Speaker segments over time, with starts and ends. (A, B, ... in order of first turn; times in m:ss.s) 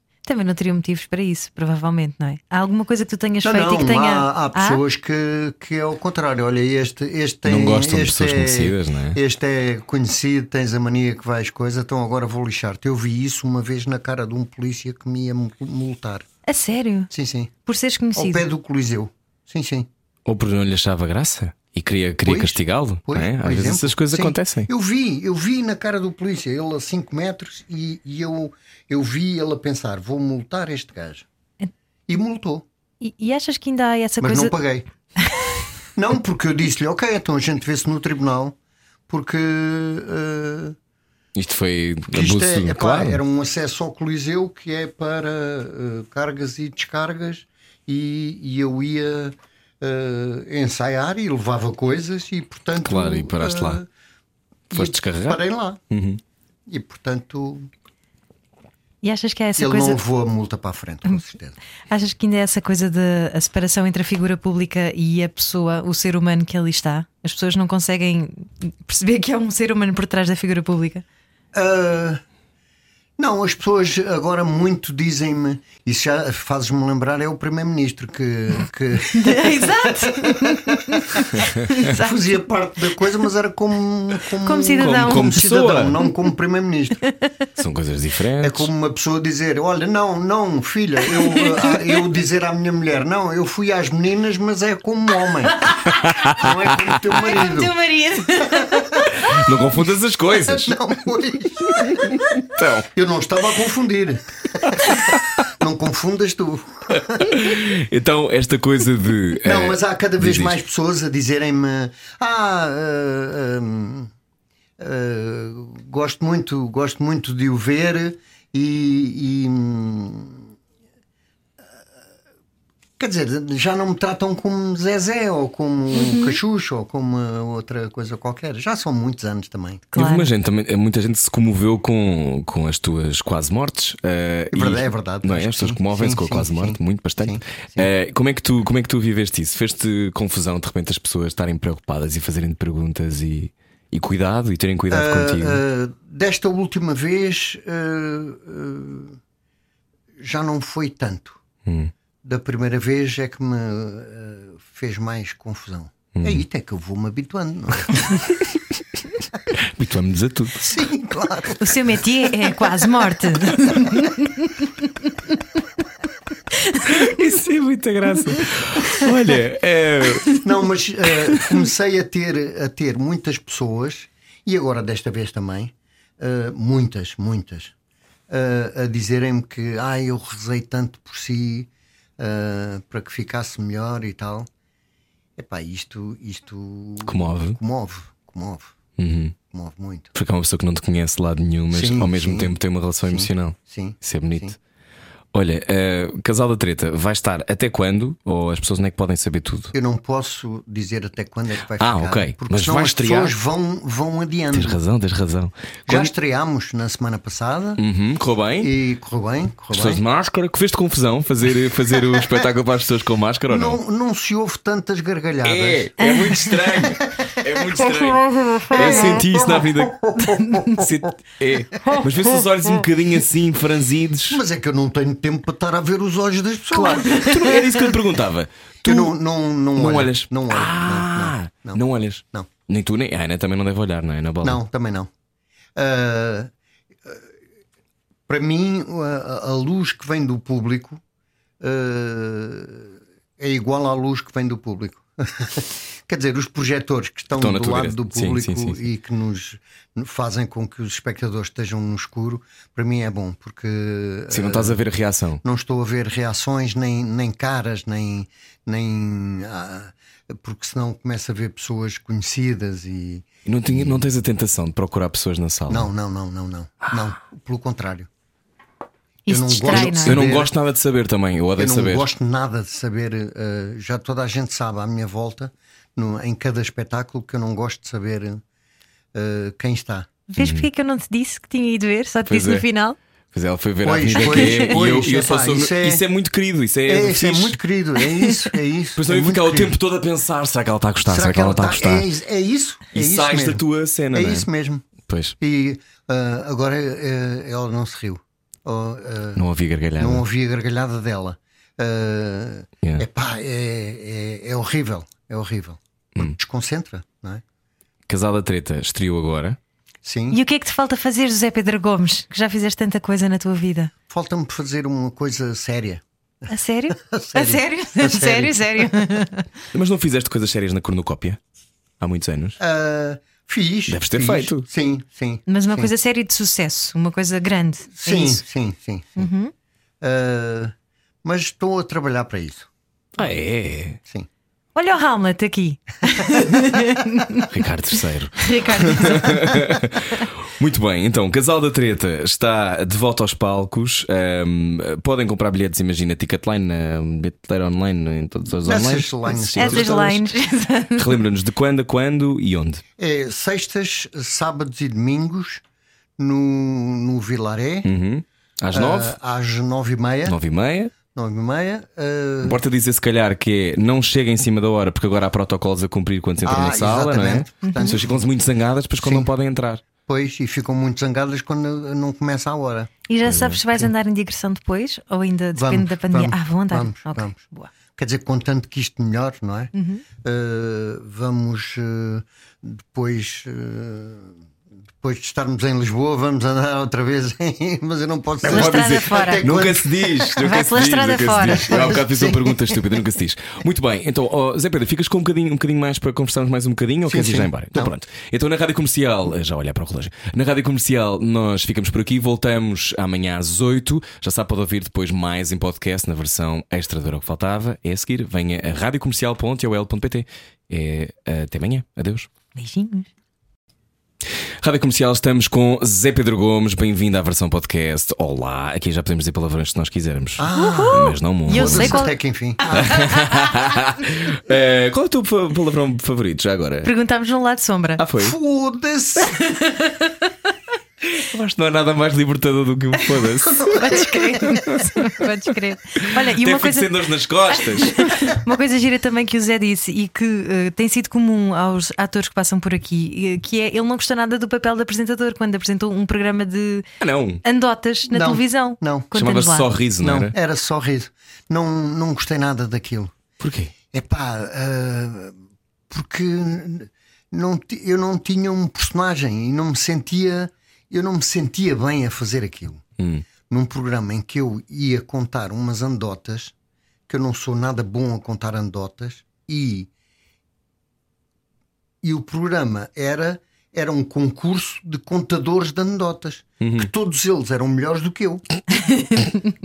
0:00.3-0:04.8 A
0:03.4-0:16.3 B
0:07.5-0:09.2 C
0:16.5-0:17.1 A
0:17.1-0:17.5 B
0:17.7-0:18.5 A
0:18.1-0:19.9 B
0:20.3-0:24.7 C
0:22.2-0:31.3 B
0:32.1-0:32.6 B
0:33.0-0:34.5 A
0:34.2-0:34.9 B
0:36.0-0:38.6 B
0:39.1-0:40.8 B
0:41.4-0:43.2 C
0:42.1-0:53.9 B
0:52.8-0:53.8 C
0:54.7-0:55.8 B
0:54.7-0:56.2 C
0:56.7-0:57.7 B
0:59.0-1:00.0 A
0:59.6-1:01.6 B
1:01.9-1:11.0 A
1:11.5-1:12.2 B
1:13.2-1:27.0 B
1:19.1-1:22.2 A
1:24.4-1:25.4 A
1:24.8-1:26.0 C
1:27.6-1:28.7 C
1:28.4-1:37.7 B
1:31.3-1:31.8 A
1:35.8-1:37.0 C
1:37.1-1:39.4 A
1:38.5-1:39.1 B
1:39.2-1:40.8 C
1:40.4-1:42.2 B
1:42.1-1:42.9 C
1:42.9-1:47.4 B
1:45.1-1:45.4 C
1:47.3-1:50.6 C
1:49.4-1:54.1 B
1:54.8-2:00.5 B
2:03.0-2:09.9 B
2:05.9-2:06.4 A
2:09.9-2:10.3 A
2:10.0-2:25.6 C
2:14.5-2:17.9 B
2:24.9-2:29.2 B
2:30.2-2:31.4 B
2:31.7-2:31.9 C
2:32.2-2:38.2 B
2:36.1-2:36.4 C
2:38.0-2:38.6 C
2:39.5-2:40.7 C
2:40.6-2:42.0 B
2:41.6-2:45.1 A
2:46.7-2:47.1 A
2:46.9-2:50.4 C
2:50.3-2:57.7 B
2:58.3-3:04.5 B
3:05.4-3:08.8 B
3:07.1-3:07.6 C
3:09.0-3:09.4 C
3:09.5-3:10.1 B
3:10.2-3:14.6 C
3:11.7-3:12.5 B
3:13.1-3:14.6 B
3:15.3-3:19.7 C
3:19.7-3:24.8 B
3:21.8-3:23.4 C
3:24.5-3:26.1 C
3:25.9-3:27.8 B
3:27.8-3:28.7 C
3:28.6-3:30.0 B
3:29.7-3:33.8 C
3:33.5-3:41.0 B
3:35.4-3:44.4 C
3:44.3-3:47.2 B
3:46.7-3:49.2 C
3:47.2-3:47.6 A
3:48.8-3:52.5 B
3:49.7-3:54.6 C
3:54.4-3:55.1 B
3:55.8-3:56.5 B
3:58.3-4:01.0 B
4:01.6-4:14.8 B
4:07.3-4:08.8 C
4:14.3-4:15.4 C
4:15.4-4:24.1 B
4:23.5-4:25.9 C
4:25.7-4:28.1 B
4:29.3-4:30.2 A
4:29.3-4:30.5 B
4:29.7-4:32.1 C
4:31.6-4:38.4 B
4:39.1-4:40.1 B
4:40.3-4:43.0 A
4:40.4-4:40.7 C
4:42.2-4:42.6 C
4:43.3-4:47.6 C
4:43.8-4:46.0 B
4:44.2-4:44.7 A
4:46.9-4:49.8 B
4:49.0-4:52.1 C
4:51.0-4:54.8 B
4:52.9-4:54.5 C
4:55.1-4:55.4 C
4:55.4-4:59.4 B
4:59.4-5:00.2 C
5:00.0-5:07.4 B
5:08.1-5:09.6 C
5:10.0-5:10.4 B
5:10.3-5:13.9 A
5:14.1-5:16.0 B
5:16.5-5:19.5 A
5:16.9-5:19.2 B
5:19.7-5:21.4 C
5:22.0-5:22.6 C
5:22.6-5:25.9 B
5:23.9-5:24.7 C
5:25.5-5:28.4 A
5:27.9-5:29.3 B
5:29.2-5:29.5 A
5:30.0-5:32.7 B
5:33.2-5:34.0 C
5:34.8-5:37.5 A
5:37.5-5:50.2 C
5:38.4-5:39.7 A
5:48.6-5:50.2 B
5:49.6-5:51.2 A
5:51.0-5:52.8 C
5:53.0-5:55.6 B
5:56.2-5:57.9 B
5:57.8-5:59.2 C
5:58.7-6:00.4 B
6:00.3-6:00.9 C
6:01.1-6:02.6 B
6:02.4-6:09.8 C
6:06.4-6:08.2 B
6:07.6-6:08.0 A
6:09.0-6:09.3 B
6:10.1-6:12.9 B
6:13.1-6:17.7 A
6:13.3-6:13.6 C
6:15.5-6:17.4 B
6:18.0-6:24.4 B
6:19.7-6:20.0 A
6:25.0-6:30.4 B
6:28.4-6:52.3 C
6:28.5-6:29.5 A
6:30.4-6:32.2 A
6:31.7-6:32.5 B
6:37.1-6:37.9 B
6:52.6-6:53.1 A
6:54.6-7:02.0 C
7:00.4-7:03.1 B
7:00.5-7:03.5 A
7:02.7-7:06.9 C
7:06.8-7:08.0 A
7:08.0-7:08.4 C
7:08.2-7:09.4 B
7:09.3-7:10.3 A
7:11.2-7:14.8 C
7:13.6-7:14.4 B
7:13.7-7:16.9 A
7:16.1-7:18.1 C
7:17.5-7:26.9 A
7:27.0-7:27.4 C
7:27.4-7:29.7 A
7:28.1-7:29.1 B
7:29.2-7:30.4 C
7:30.0-7:33.1 B
7:33.4-7:33.7 C
7:33.9-7:35.4 B
7:35.9-7:42.8 B
7:43.0-7:43.2 C
7:43.5-7:46.5 B
7:47.1-7:49.9 B
7:52.0-7:58.4 B
7:56.6-7:56.9 C
7:58.9-7:59.2 A